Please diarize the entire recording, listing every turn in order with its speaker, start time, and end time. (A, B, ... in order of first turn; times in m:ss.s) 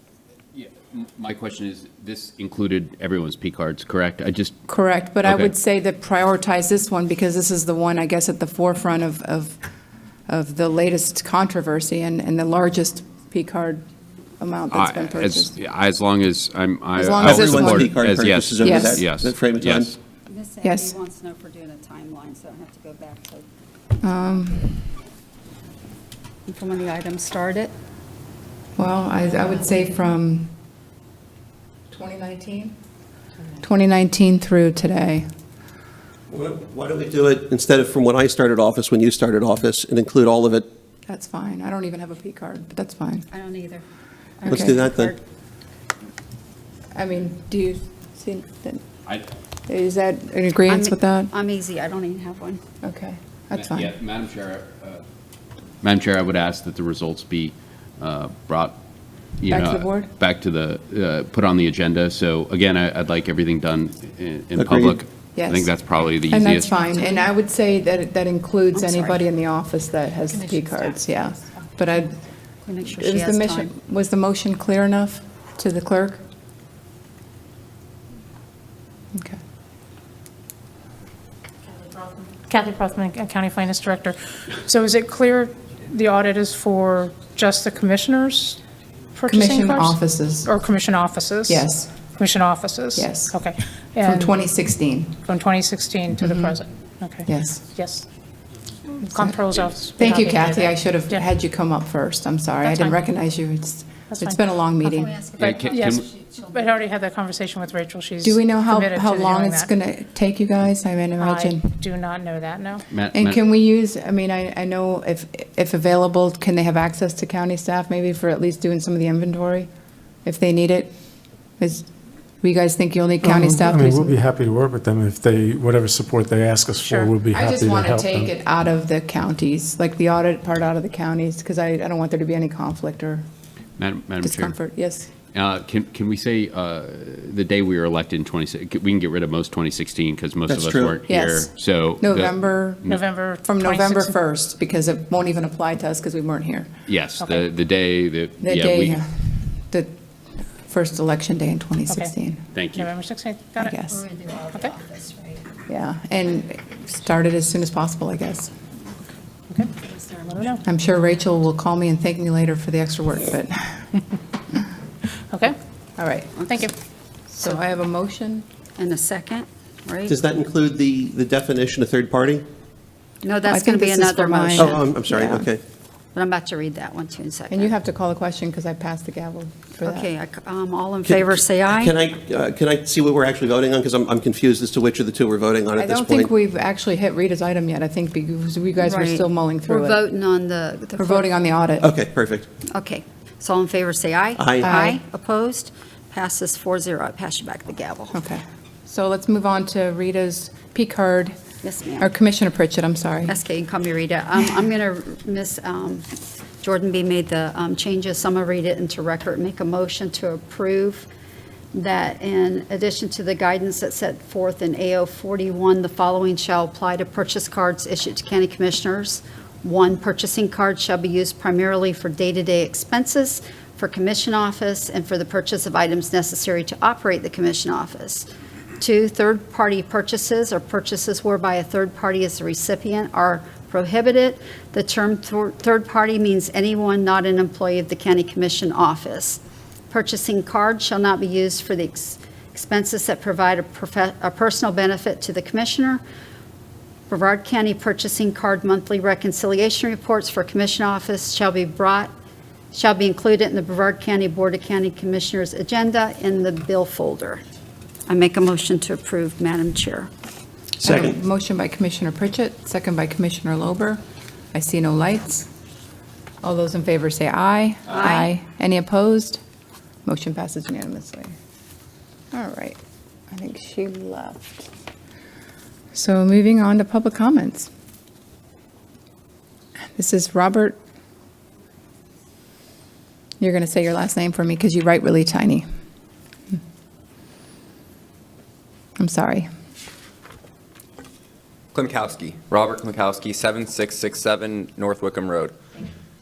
0:00.5-0:04.6 A
0:04.7-0:09.6 B
0:05.2-0:05.5 A
0:10.3-0:13.8 B
0:14.4-0:15.5 B
0:14.7-0:19.9 A
0:17.0-0:17.9 B
0:17.2-0:20.0 C
0:18.6-0:19.0 B
0:20.3-0:23.4 D
0:20.6-0:20.9 B
0:24.0-0:24.8 B
0:26.5-0:27.7 D
0:28.8-0:30.5 B
0:31.9-0:32.7 B
0:33.6-0:35.3 B
0:36.3-0:40.7 C
0:41.1-0:43.3 B
0:43.3-0:43.8 D
0:44.4-0:45.2 D
0:44.5-0:45.2 C
0:44.5-0:44.8 B
0:46.9-0:48.8 B
0:49.7-0:51.3 B
0:50.7-0:52.6 D
0:52.8-0:53.9 B
0:53.5-0:55.0 A
0:55.8-0:58.8 A
0:59.4-1:06.8 A
0:59.5-1:00.1 B
1:04.6-1:05.0 C
1:05.4-1:05.7 B
1:06.3-1:12.2 B
1:08.7-1:09.2 D
1:12.6-1:13.7 D
1:12.9-1:16.2 B
1:19.1-1:19.4 B
1:22.2-1:28.6 E
1:29.1-1:34.4 E
1:29.3-1:30.5 B
1:31.5-1:31.9 B
1:32.9-1:33.4 B
1:34.0-1:35.2 B
1:35.2-1:38.1 E
1:36.2-1:36.6 B
1:37.2-1:37.6 B
1:38.9-1:41.3 E
1:39.0-1:39.3 B
1:40.0-1:45.1 B
1:42.6-1:43.1 E
1:44.1-1:44.4 E
1:44.8-1:46.8 D
1:45.4-1:46.1 A
1:45.4-1:49.7 E
1:48.2-1:51.7 B
1:51.2-1:52.8 E
1:52.9-1:53.4 A
1:53.1-1:59.7 B
2:00.2-2:00.9 B
2:01.6-2:01.9 B
2:02.4-2:04.2 B
2:03.2-2:08.3 F
2:06.8-2:07.2 E
2:07.3-2:13.2 B
2:13.8-2:14.6 A
2:14.2-2:15.1 B
2:15.3-2:23.0 A
2:20.5-2:21.0 C
2:21.1-2:22.8 B
2:22.9-2:24.2 E
2:23.4-2:26.7 B
2:26.8-2:29.0 A
2:28.4-2:29.9 B
2:30.6-2:32.4 B
2:31.9-2:32.1 E
2:32.5-2:32.9 A
2:32.7-2:33.8 E
2:33.6-2:34.0 B
2:33.9-2:35.4 D
2:35.7-2:38.5 B
2:39.5-2:40.6 E
2:39.8-2:40.2 D
2:40.6-2:43.9 B
2:45.3-2:45.6 E
2:46.0-2:46.7 B
2:46.4-2:46.6 D
2:46.5-2:46.7 E
2:47.3-2:48.4 B
2:48.8-2:50.1 D
2:50.1-2:52.4 C
2:53.2-2:54.8 D
2:53.5-2:55.4 B
2:54.6-2:55.6 C
2:56.1-2:57.7 D
2:57.5-3:00.1 B
2:59.8-3:01.9 D
3:01.0-3:06.3 C
3:05.8-3:10.0 B
3:08.8-3:11.4 D
3:11.0-3:11.9 B
3:11.8-3:12.5 C
3:12.7-3:18.2 D
3:14.4-3:14.7 C
3:14.6-3:15.0 B
3:18.1-3:21.3 B
3:21.6-3:22.1 D
3:22.0-3:23.4 B
3:23.2-3:26.1 D
3:26.6-3:31.1 D
3:31.7-3:48.2 D
3:48.8-4:06.0 D
4:07.1-4:12.1 D
4:12.7-4:17.4 D
4:18.1-4:20.1 D
4:20.8-4:21.2 C
4:20.8-4:24.0 B
4:24.5-4:25.5 B
4:26.4-4:29.4 B
4:27.9-4:28.3 D
4:30.0-4:31.3 B
4:32.3-4:32.8 B
4:33.3-4:34.7 B
4:35.9-4:37.7 B
4:40.0-4:40.8 B
4:43.4-4:45.6 B
4:49.0-4:49.5 B
4:51.7-4:55.6 G